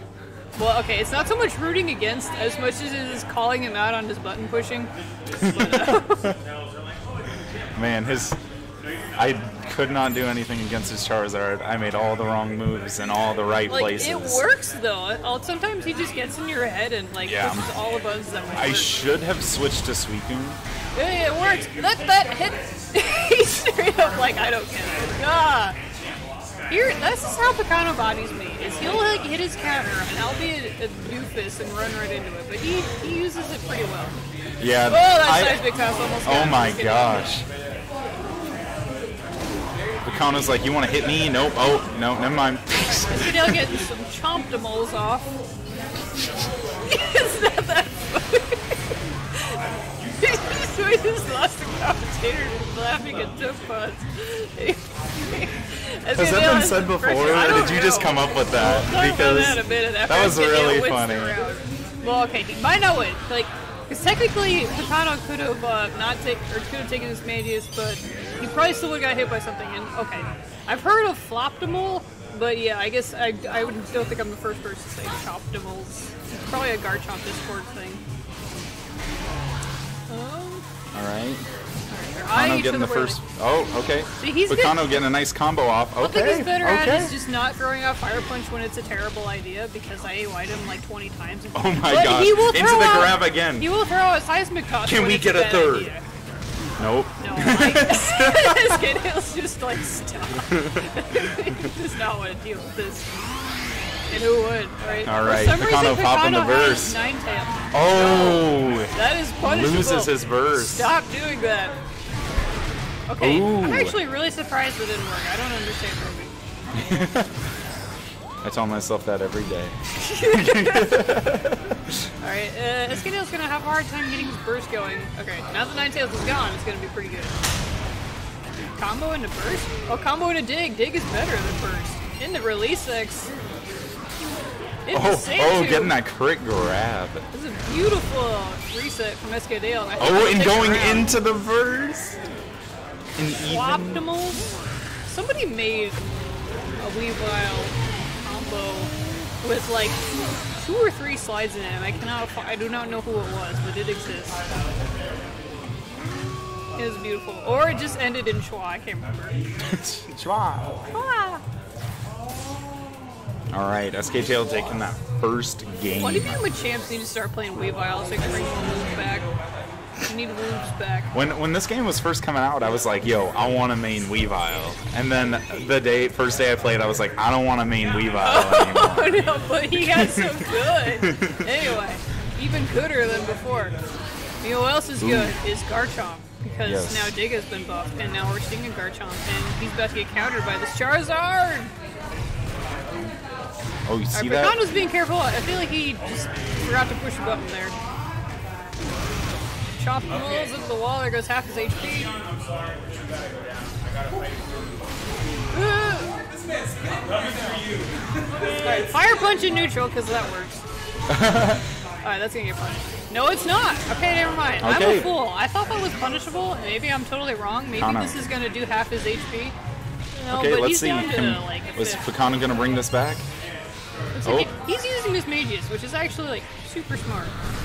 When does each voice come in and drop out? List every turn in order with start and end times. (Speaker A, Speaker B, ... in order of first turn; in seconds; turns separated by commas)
Speaker A: 0.6-6.3, Speaker B: 5.5-6.2, Speaker B: 7.7-8.4, Speaker B: 9.2-14.4, Speaker A: 13.7-19.0, Speaker B: 17.2-17.6, Speaker B: 18.5-20.6, Speaker A: 20.9-25.8, Speaker A: 26.7-34.2, Speaker B: 34.6-35.7, Speaker A: 34.8-37.3, Speaker B: 36.2-37.4, Speaker B: 40.0-43.7, Speaker A: 42.8-45.3, Speaker A: 46.9-48.8, Speaker A: 50.2-78.0, Speaker B: 56.1-61.4, Speaker A: 80.1-80.6, Speaker B: 80.9-81.4, Speaker A: 81.9-83.2, Speaker B: 82.3-87.1, Speaker A: 84.2-85.0, Speaker A: 86.0-96.0, Speaker B: 91.5-93.7, Speaker B: 94.8-95.9, Speaker B: 96.8-98.8, Speaker A: 97.2-103.1, Speaker B: 100.5-101.2, Speaker A: 104.1-111.7, Speaker B: 105.0-107.0, Speaker B: 107.7-110.9, Speaker A: 113.1-116.3, Speaker B: 113.2-114.0, Speaker B: 116.7-117.3, Speaker B: 118.4-121.9, Speaker A: 119.9-121.3, Speaker A: 122.2-127.3, Speaker A: 128.8-133.3, Speaker A: 134.8-135.9, Speaker B: 134.9-137.2, Speaker A: 137.3-141.1, Speaker B: 140.0-142.2, Speaker B: 143.2-144.0, Speaker A: 143.4-144.5, Speaker A: 145.1-146.0, Speaker A: 146.8-150.0, Speaker A: 150.6-154.4, Speaker A: 156.7-159.4, Speaker B: 159.6-160.7, Speaker A: 160.9-161.4, Speaker B: 163.5-166.4, Speaker A: 165.9-169.3, Speaker A: 170.0-171.1, Speaker B: 171.1-181.5, Speaker A: 178.2-183.8, Speaker A: 184.4-191.7, Speaker B: 185.0-185.3, Speaker B: 186.6-187.1, Speaker B: 193.8-194.6, Speaker A: 194.1-197.8, Speaker A: 199.8-202.1, Speaker A: 205.5-206.1, Speaker A: 208.6-210.6, Speaker B: 211.1-211.6, Speaker A: 212.0-219.5, Speaker B: 214.6-215.2, Speaker B: 217.8-218.2, Speaker A: 220.1-222.0, Speaker B: 220.3-223.3, Speaker A: 224.1-227.3, Speaker B: 224.2-224.5